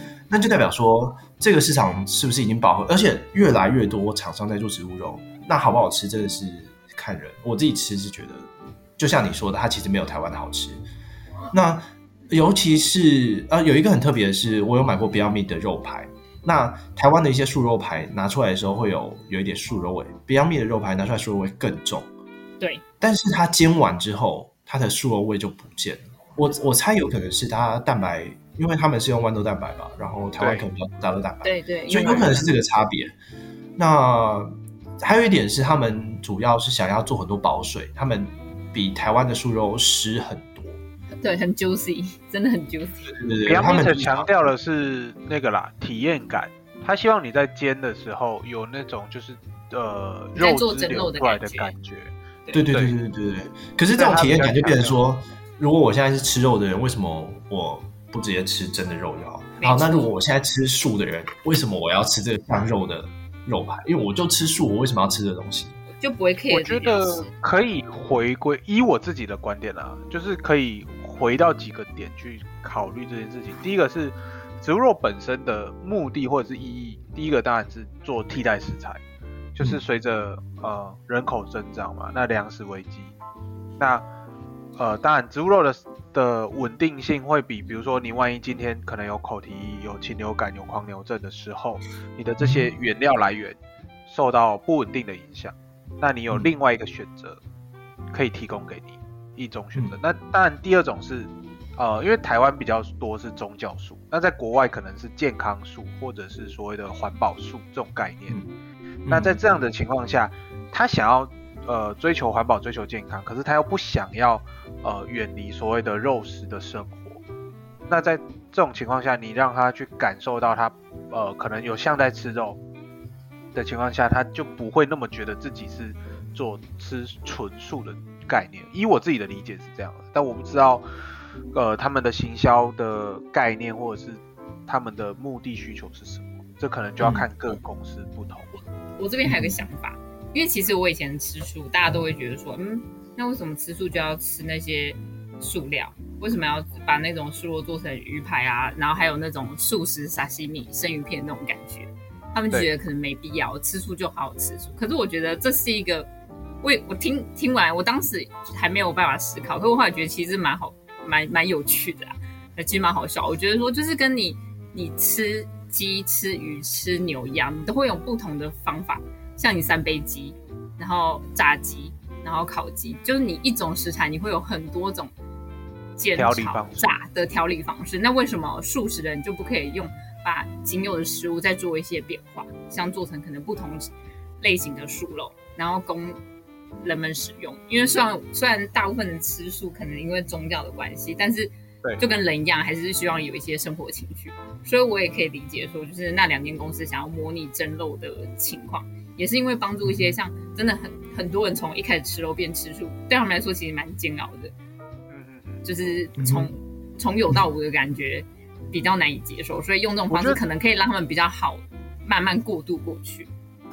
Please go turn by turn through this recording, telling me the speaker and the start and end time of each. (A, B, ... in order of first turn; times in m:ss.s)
0:00.3-0:08.5 A
0:09.0-0:10.8 A
0:11.5-0:22.1 A
0:23.0-0:33.1 A
0:30.4-0:30.6 B
0:31.4-0:32.5 C
0:33.8-0:40.8 A
0:41.2-0:43.2 C
0:43.0-0:44.3 A
0:43.4-0:52.1 B
0:50.4-0:51.7 C
0:52.5-1:05.8 A
0:52.7-0:52.9 B
0:53.9-0:55.0 B
0:59.6-1:00.1 C
1:06.0-1:07.3 C
1:06.5-1:19.0 B
1:19.5-1:23.2 B
1:23.8-1:24.0 B
1:24.8-1:37.4 B
1:32.4-1:32.7 A
1:38.1-1:48.4 B
1:49.0-1:49.4 A
1:49.1-1:57.2 B
1:57.9-2:02.6 B
2:03.5-2:10.8 B
2:11.5-2:18.6 B
2:17.0-2:17.2 A
2:19.0-2:36.1 C
2:19.3-2:19.5 A
2:36.6-2:55.1 C
2:56.0-3:06.2 C
2:56.1-2:57.0 B
3:06.8-3:24.5 C
3:19.8-3:20.2 A
3:25.1-3:25.6 B
3:25.6-3:33.3 C
3:26.2-3:26.5 A
3:30.1-3:30.4 B